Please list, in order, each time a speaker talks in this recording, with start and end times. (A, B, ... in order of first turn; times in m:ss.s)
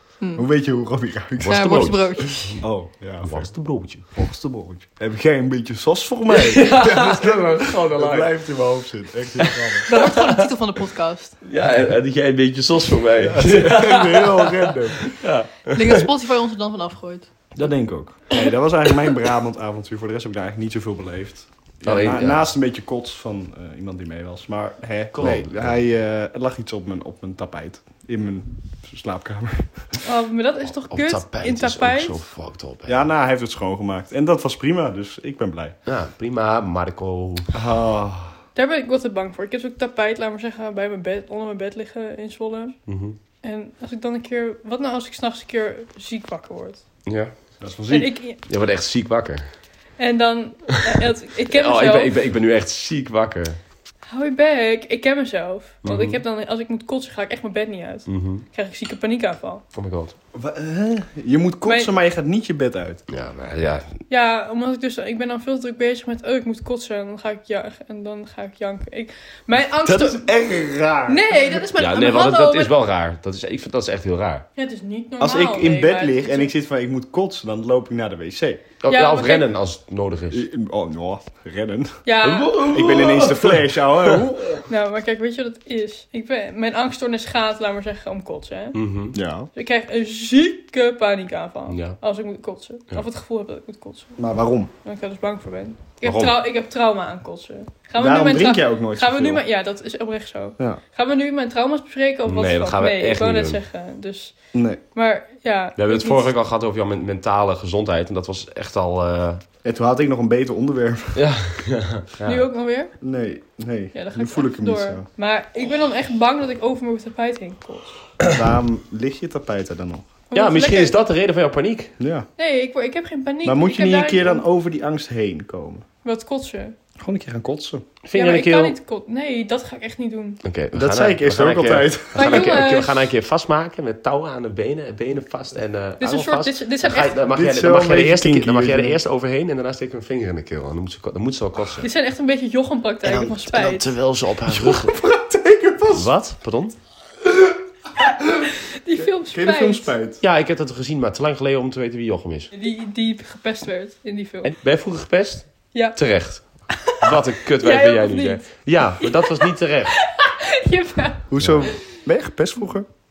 0:00.2-0:00.4 A
0:00.4-0:01.7 B
0:01.4-0:02.6 C
0:01.4-0:02.6 A
0:02.6-0:03.5 B
0:03.2-0:04.2 C
0:04.1-0:09.9 B
0:06.3-0:08.4 C
0:09.4-0:10.5 C
0:09.9-0:11.4 A
0:11.4-0:16.1 C
0:13.2-0:15.1 B
0:15.7-0:17.3 A
0:17.6-0:30.0 B
0:21.8-0:22.5 C
0:25.1-0:25.7 C
0:30.0-0:32.2 A
0:30.9-0:33.0 C
0:32.8-0:35.8 B
0:35.8-0:37.5 C
0:37.5-0:38.4 B
0:38.5-0:42.8 A
0:42.9-0:43.2 C
0:43.4-0:46.8 A
0:47.0-0:47.3 C
0:47.6-0:48.1 B
0:47.9-0:48.4 A
0:48.4-0:49.4 C
0:50.0-0:52.2 A
0:51.5-0:53.6 C
0:54.0-0:59.6 A
0:55.8-0:56.2 C
0:58.1-0:58.4 C
0:59.7-1:00.1 C
1:00.3-1:03.0 B
1:01.6-1:01.9 A
1:03.1-1:04.0 C
1:04.1-1:10.4 A
1:09.8-1:11.7 B
1:11.1-1:12.8 A
1:11.8-1:14.4 C
1:14.6-1:16.5 A
1:15.2-1:18.6 B
1:18.8-1:20.4 C
1:18.9-1:19.5 A
1:20.3-1:21.9 B
1:22.0-1:22.8 A
1:22.2-1:24.2 C
1:22.6-1:24.5 B
1:24.7-1:28.8 A
1:28.7-1:29.2 C
1:29.1-1:29.5 B
1:29.5-1:34.2 A
1:31.7-1:32.0 C
1:34.2-1:34.7 B
1:34.8-1:44.3 A
1:36.0-1:36.3 B
1:38.0-1:39.4 B
1:42.2-1:43.6 C
1:44.5-1:44.8 B
1:44.9-1:46.3 A
1:45.8-1:49.4 C
1:49.6-1:51.2 B
1:51.1-1:52.4 C
1:52.2-1:52.9 A
1:53.0-1:55.0 B
1:53.9-1:58.0 A
1:58.3-2:00.1 B
2:00.3-2:01.0 A
2:00.3-2:01.9 C
2:02.0-2:02.3 B
2:02.4-2:04.4 A
2:03.4-2:05.8 B
2:06.0-2:06.7 A
2:07.0-2:07.8 B
2:08.0-2:08.8 C
2:08.1-2:10.4 A
2:10.4-2:21.9 C
2:10.7-2:12.6 B
2:12.1-2:13.0 A
2:16.0-2:17.3 A
2:17.3-2:19.0 B
2:21.8-2:23.9 A
2:23.0-2:24.9 C
2:24.4-2:26.1 B
2:25.9-2:26.7 C
2:27.2-2:30.2 B
2:28.7-2:29.9 A
2:30.2-2:32.5 C
2:32.5-2:34.5 A
2:34.4-2:39.9 C
2:36.8-2:41.8 A
2:41.3-2:42.8 B
2:41.4-2:41.7 C